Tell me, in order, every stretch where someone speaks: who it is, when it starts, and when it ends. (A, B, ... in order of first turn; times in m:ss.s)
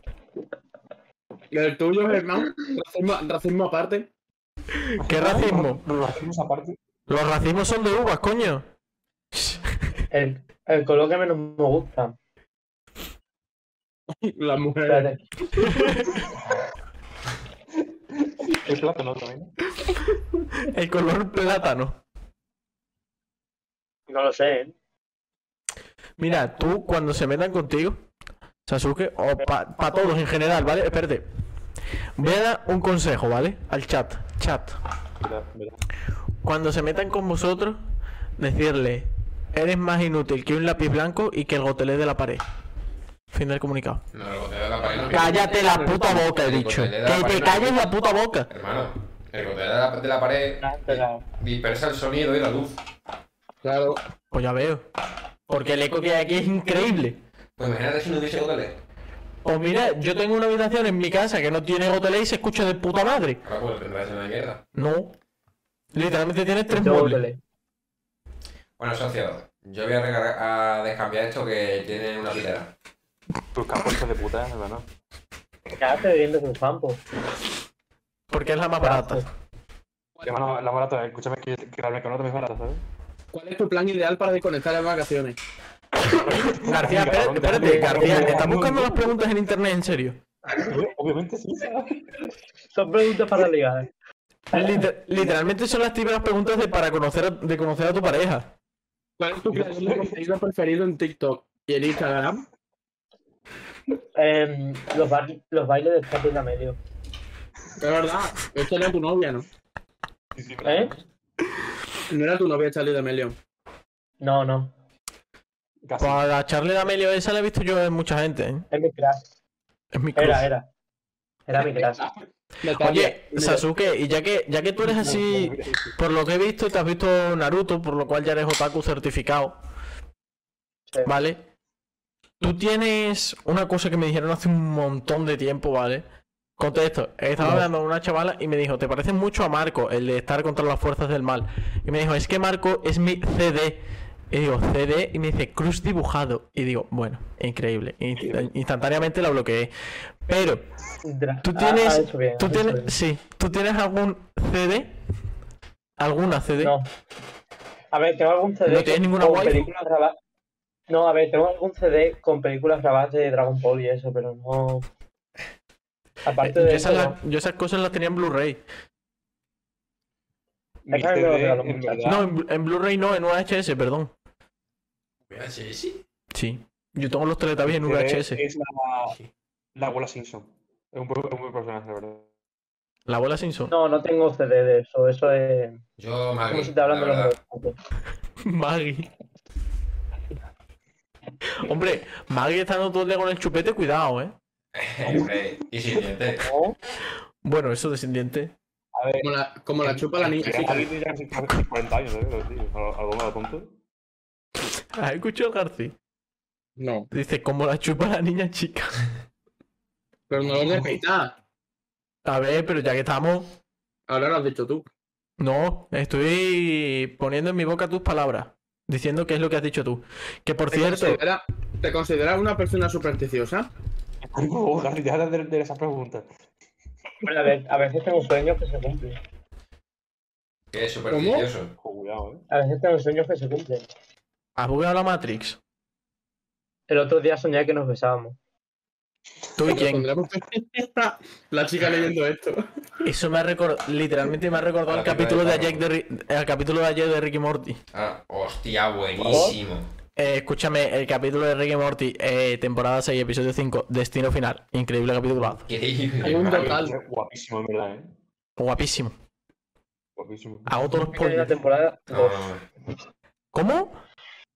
0:01.5-0:04.1 A
0:04.8-0:05.8 B
0:05.0-0:06.8 C
0:07.1-0:08.7 B
0:09.3-0:09.7 B
0:10.1-0:12.2 D
0:14.1-0:15.1 A
0:14.9-0:15.2 D
0:15.6-0:16.1 B
0:18.2-0:19.5 C
0:20.5-0:22.0 B
0:24.1-0:24.8 D
0:26.2-0:28.0 B
0:28.7-0:31.3 B
0:32.2-0:34.8 B
0:35.2-0:35.8 C
0:36.4-0:37.8 B
0:38.4-0:42.4 B
0:43.3-0:44.0 B
0:44.1-0:45.5 E
0:45.1-0:48.5 B
0:45.5-0:45.9 A
0:46.1-0:47.9 E
0:48.5-0:52.8 E
0:50.6-0:51.2 D
0:53.6-0:54.0 A
0:54.3-0:54.9 B
0:55.5-0:57.2 B
0:57.6-0:58.8 E
0:59.4-1:03.4 B
1:03.4-1:04.6 E
1:04.8-1:05.2 B
1:05.9-1:07.2 B
1:06.7-1:07.4 D
1:08.8-1:12.7 E
1:13.6-1:14.9 C
1:15.8-1:17.0 D
1:18.3-1:19.2 B
1:18.8-1:19.3 D
1:20.2-1:20.5 A
1:20.2-1:22.8 C
1:23.3-1:25.4 A
1:26.0-1:29.1 C
1:26.4-1:30.2 B
1:27.6-1:28.4 D
1:30.6-1:32.1 C
1:32.7-1:33.9 D
1:34.5-1:38.5 B
1:39.2-1:42.4 A
1:39.5-1:40.2 C
1:44.2-1:46.8 D
1:47.8-1:49.5 A
1:50.4-1:51.0 C
1:50.6-1:50.9 D
1:52.1-1:53.4 A
1:54.2-1:54.7 D
1:55.8-1:56.3 C
1:56.0-1:58.7 B
1:58.7-1:59.2 D
1:59.9-2:00.5 B
2:00.2-2:00.7 D
2:01.5-2:02.1 D
2:02.6-2:03.7 A
2:02.8-2:09.6 B
2:04.8-2:06.0 C
2:11.0-2:11.4 B
2:12.4-2:16.0 B
2:16.6-2:29.7 B
2:28.2-2:28.5 C
2:30.3-2:30.6 B
2:31.0-2:32.9 D
2:31.4-2:35.0 B
2:36.0-2:36.8 B
2:36.6-2:36.9 D
2:37.9-2:40.2 D
2:38.7-2:39.7 B
2:40.9-2:44.9 D
2:46.2-2:47.2 D
2:46.4-2:48.6 B
2:50.9-2:52.1 D
2:50.9-2:52.3 C
2:52.0-2:54.1 B
2:55.3-2:56.0 E
2:56.3-2:58.4 B
2:57.7-2:59.2 C
2:59.8-3:02.3 C
3:03.1-3:03.7 B
3:03.7-3:05.8 D
3:06.0-3:07.4 E
3:06.5-3:07.7 D
3:08.4-3:09.1 B
3:11.6-3:14.4 B
3:14.7-3:16.5 E
3:15.0-3:15.3 C
3:16.4-3:16.8 D
3:17.4-3:18.5 B
3:19.0-3:19.3 C
3:19.2-3:20.9 A
3:19.8-3:23.8 C
3:25.0-3:26.0 B
3:26.8-3:27.1 A
3:27.1-3:29.0 B
3:30.3-3:31.4 A
3:32.2-3:33.6 B
3:34.1-3:34.9 A
3:35.4-3:41.2 B
3:40.7-3:43.7 A
3:44.3-3:46.3 C
3:47.2-3:49.2 D
3:50.7-3:51.8 E
3:51.1-3:51.5 A
3:51.8-3:52.4 C
3:52.5-3:53.9 D
3:54.6-3:55.6 B
3:56.9-3:58.4 D
3:59.6-4:00.1 B
3:59.7-4:03.1 A
4:03.0-4:07.8 B
4:04.9-4:05.8 E
4:07.9-4:09.9 E
4:09.3-4:09.6 D
4:10.2-4:15.7 B
4:15.7-4:16.8 E
4:16.2-4:18.2 C
4:16.2-4:17.0 A
4:18.6-4:19.2 B
4:20.2-4:20.9 C
4:20.7-4:21.6 B
4:21.1-4:22.5 D
4:22.1-4:22.6 E
4:23.5-4:24.0 B